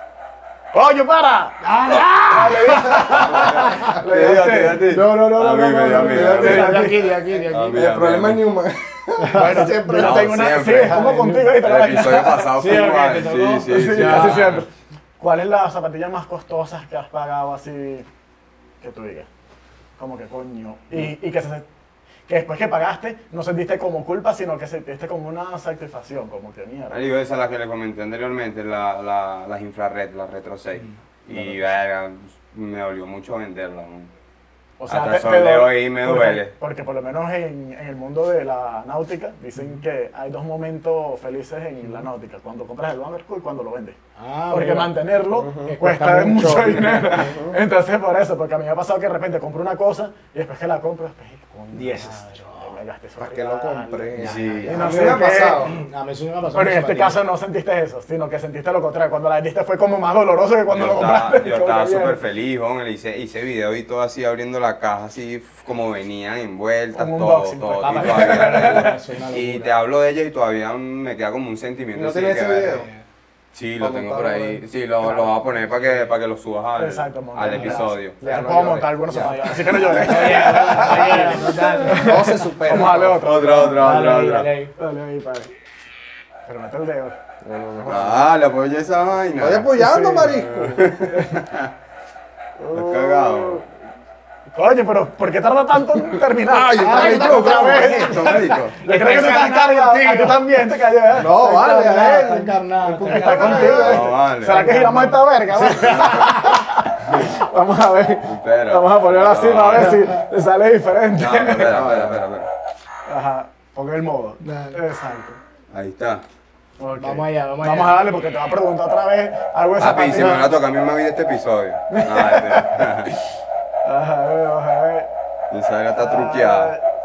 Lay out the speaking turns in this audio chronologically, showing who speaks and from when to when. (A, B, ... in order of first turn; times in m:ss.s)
0:00.7-0:01.6 A
0:01.6-0:08.0 B
0:02.2-0:04.9 A
0:03.2-0:06.9 C
0:05.9-0:06.9 D
0:06.0-0:07.1 A
0:07.5-0:08.5 C
0:07.7-0:10.4 D
0:09.2-0:09.8 B
0:09.3-0:12.9 A
0:09.9-0:14.6 C
0:10.7-0:11.6 B
0:12.5-0:14.6 B
0:13.6-0:18.0 A
0:18.8-0:19.3 A
0:20.0-0:21.6 A
0:22.3-0:27.0 A
0:26.9-0:34.1 C
0:31.3-0:31.6 A
0:34.8-0:44.0 A
0:34.9-0:36.5 C
0:44.2-0:44.9 B
0:44.5-0:55.7 A
0:45.4-0:45.7 D
0:45.6-0:47.4 B
0:47.1-0:47.6 D
0:51.7-0:52.8 B
0:53.2-0:55.8 D
0:54.2-0:55.3 C
0:54.2-0:54.8 B
0:55.5-0:57.2 B
0:56.5-1:02.2 A
1:00.7-1:12.8 C
1:00.9-1:01.8 B
1:06.9-1:08.8 A
1:07.8-1:09.7 B
1:11.9-1:12.9 D
1:12.7-1:13.0 B
1:13.5-1:20.0 C
1:13.8-1:14.6 D
1:15.0-1:15.3 A
1:16.8-1:24.1 A
1:17.5-1:17.9 B
1:18.2-1:23.3 D
1:19.5-1:22.6 B
1:23.0-1:24.5 C
1:23.7-1:24.7 B
1:24.8-1:25.5 A
1:26.4-1:27.2 A
1:27.4-1:28.3 D
1:27.9-1:31.7 C
1:29.4-1:31.0 D
1:29.7-1:31.4 A
1:32.6-1:33.6 A
1:32.7-1:33.6 C
1:34.5-1:41.8 A
1:36.4-1:38.4 D
1:36.7-1:40.4 B
1:37.0-1:38.8 C
1:41.1-1:44.1 D
1:41.4-1:46.6 B
1:43.0-1:51.8 A
1:43.6-1:44.7 C
1:48.2-1:50.1 C
1:51.1-1:52.5 C
1:51.7-1:52.2 D
1:53.0-1:55.4 A
1:54.4-1:54.8 B
1:55.7-1:56.2 C
1:56.8-2:00.6 A
1:57.0-1:58.0 B
1:59.8-2:03.1 C
2:01.9-2:03.2 A
2:03.8-2:05.1 A
2:05.5-2:06.8 C
2:05.9-2:06.8 A